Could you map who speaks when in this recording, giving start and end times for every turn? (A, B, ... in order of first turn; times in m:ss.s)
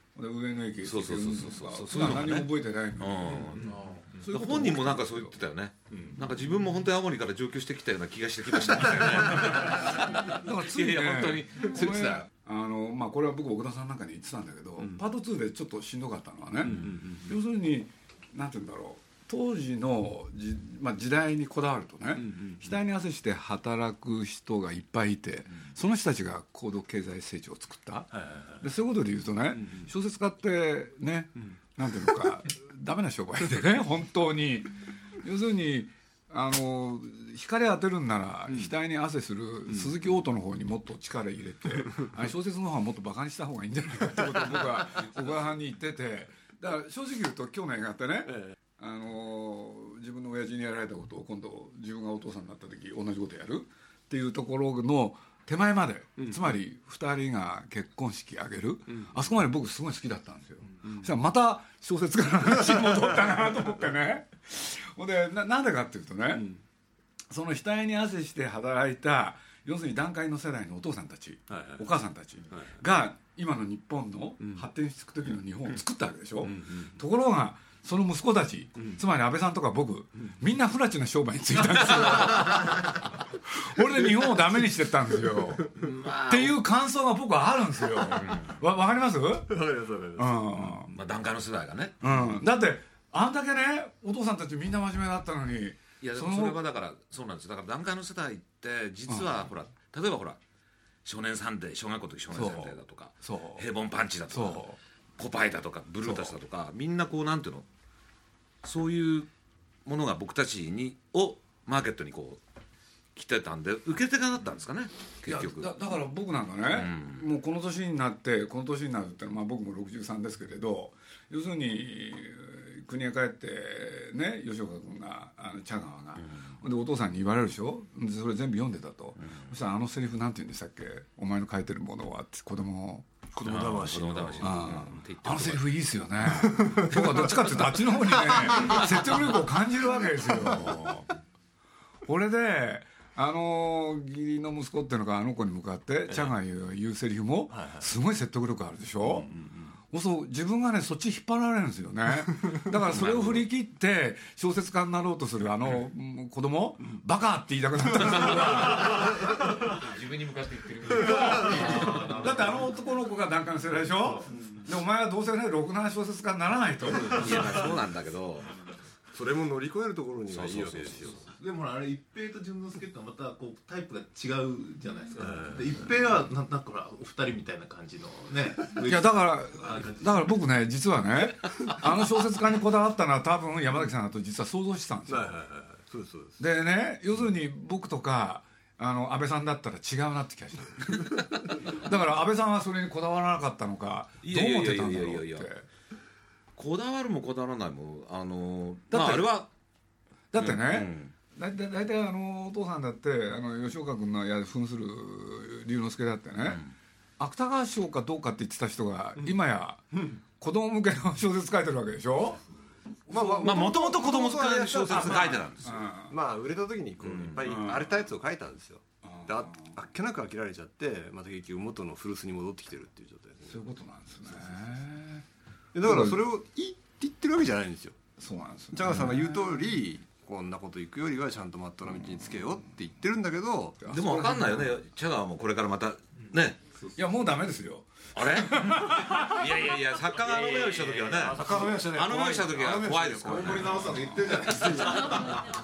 0:00.2-0:05.4 A
0:00.8-0:12.3 B
0:03.7-0:04.0 C
0:09.3-1:06.5 A
0:16.6-0:17.3 D
0:22.2-0:22.7 D
0:28.1-0:28.7 D
0:29.5-0:29.9 D
0:39.7-0:40.0 D
0:48.2-0:48.6 D
0:56.2-0:56.5 D
0:58.9-0:59.2 D
1:00.7-1:01.1 D
1:06.3-1:06.6 D
1:07.3-1:29.6 A
1:11.5-1:11.8 D
1:12.5-1:12.8 D
1:14.4-1:14.7 D
1:16.4-1:17.0 D
1:25.8-1:26.6 B
1:28.0-1:28.6 B
1:29.5-1:30.9 D
1:30.2-1:30.9 A
1:30.9-1:32.4 B
1:32.0-1:36.6 A
1:36.0-1:40.4 B
1:39.1-1:39.5 A
1:41.0-1:44.7 B
1:42.3-1:43.7 A
1:44.3-1:44.8 A
1:45.2-1:47.7 B
1:46.0-1:46.4 A
1:48.6-1:49.3 B
1:49.8-1:52.4 B
1:53.2-1:55.7 B
1:55.2-2:13.1 A
1:56.7-1:57.2 B
2:06.2-2:06.5 B
2:13.3-2:14.8 D
2:13.4-2:15.0 B
2:14.4-2:21.0 A
2:14.8-2:15.6 E
2:16.3-2:18.6 D
2:18.6-2:19.0 B
2:20.4-2:21.0 B
2:22.0-2:29.3 A
2:27.5-2:27.9 D
2:29.2-2:29.7 D
2:29.9-2:39.3 A
2:32.9-2:33.4 B
2:39.9-2:42.4 E
2:41.0-2:47.7 A
2:41.2-2:42.8 C
2:43.9-2:44.3 C
2:47.2-2:48.5 B
2:49.1-2:51.3 D
2:50.3-2:51.3 B
2:51.3-3:00.3 C
2:55.2-2:55.8 D
2:58.8-3:05.4 A
3:05.1-3:06.4 D
3:06.4-3:15.7 A
3:14.2-3:15.5 B
3:16.6-3:19.5 B
3:18.9-3:19.4 A
3:20.3-3:26.6 A
3:20.4-3:21.1 B
3:26.4-3:26.7 B
3:27.2-3:32.4 A
3:33.1-3:33.8 A
3:33.1-3:35.5 D
3:33.2-3:35.9 B
3:34.9-3:36.2 A
3:36.1-3:43.7 D
3:37.0-3:37.4 B
3:37.4-3:38.1 A
3:39.0-3:39.8 A
3:43.5-3:45.3 A
3:44.2-3:44.8 D
3:45.7-3:48.0 D
3:45.8-3:46.2 A
3:48.2-3:49.8 A
3:48.7-3:53.8 D
3:52.3-3:52.6 A
3:53.8-3:54.8 A
3:53.9-3:56.6 B
3:56.3-3:57.0 C
3:57.0-3:59.5 A
3:58.1-4:04.0 B
4:00.6-4:01.3 E
4:00.9-4:05.4 D
4:03.5-4:04.5 A
4:03.7-4:04.7 C
4:04.6-4:05.2 B